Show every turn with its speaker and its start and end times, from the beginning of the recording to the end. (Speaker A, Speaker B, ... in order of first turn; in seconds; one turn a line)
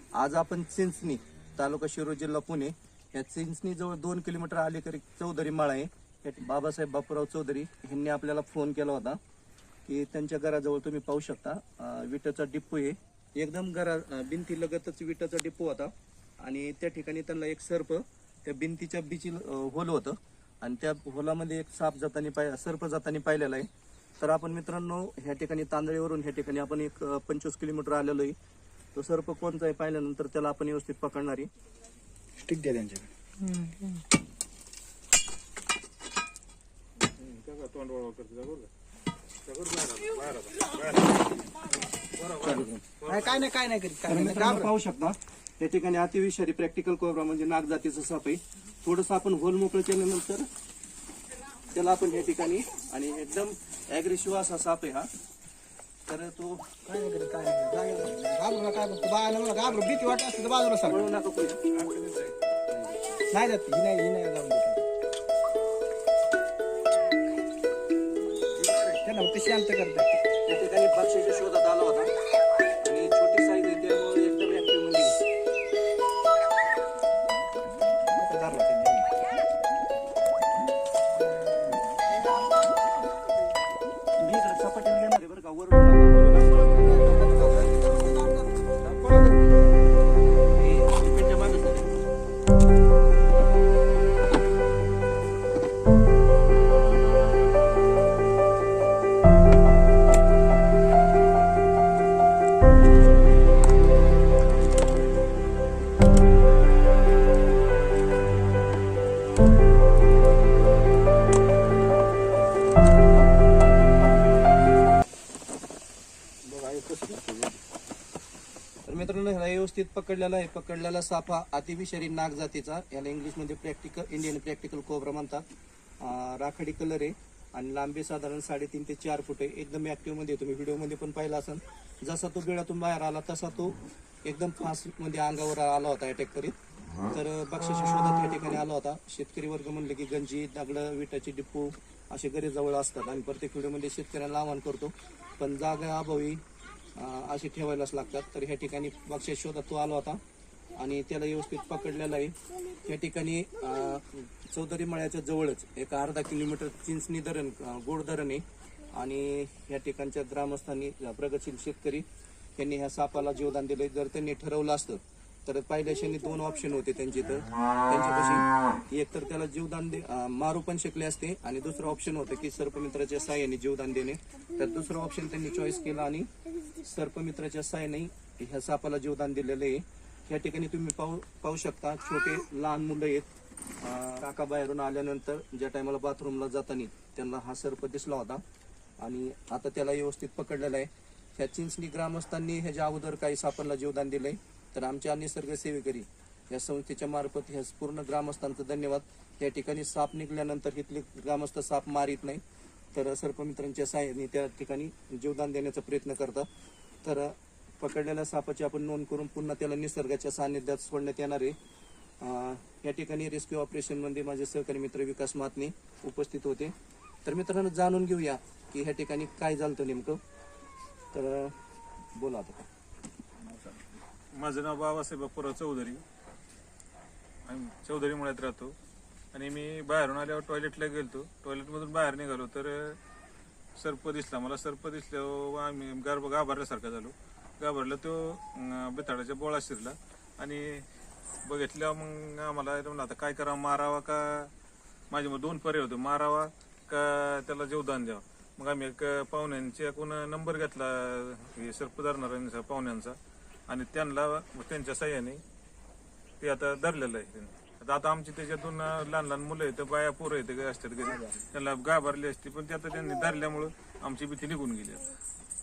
Speaker A: 0.1-9.2
Speaker A: 9.9-23.7
Speaker A: 24.2-28.4
Speaker A: 28.9-31.5
Speaker B: 32.4-34.0
Speaker C: 37.2-38.7
Speaker C: 39.5-41.3
Speaker C: 42.2-43.5
Speaker A: 42.4-42.8
Speaker B: 43.0-44.7
Speaker A: 44.1-50.5
Speaker A: 51.7-55.1
Speaker A: 56.1-56.7
Speaker B: 56.9-61.0
Speaker A: 60.9-61.6
Speaker B: 63.1-64.9
Speaker B: 68.9-70.2
Speaker A: 70.5-72.1
Speaker A: 72.8-75.2
Speaker B: 78.1-79.1
Speaker A: 84.2-86.5
Speaker B: 86.6-89.5
Speaker A: 90.5-91.9
Speaker B: 116.4-117.6
Speaker A: 118.8-125.5
Speaker A: 126.0-136.6
Speaker A: 137.1-146.4
Speaker A: 146.9-150.2
Speaker A: 150.8-162.1
Speaker A: 162.6-183.3
Speaker A: 183.8-188.4
Speaker A: 189.0-202.4
Speaker A: 202.9-206.5
Speaker A: 207.0-211.6
Speaker A: 212.2-216.7
Speaker A: 217.2-220.2
Speaker A: 221.1-221.6
Speaker A: 222.2-222.6
Speaker C: 224.3-226.0
Speaker C: 227.5-228.8
Speaker C: 229.3-233.0
Speaker C: 233.8-240.9
Speaker C: 241.4-244.5
Speaker C: 245.1-253.2
Speaker C: 253.7-255.4
Speaker C: 256.4-265.1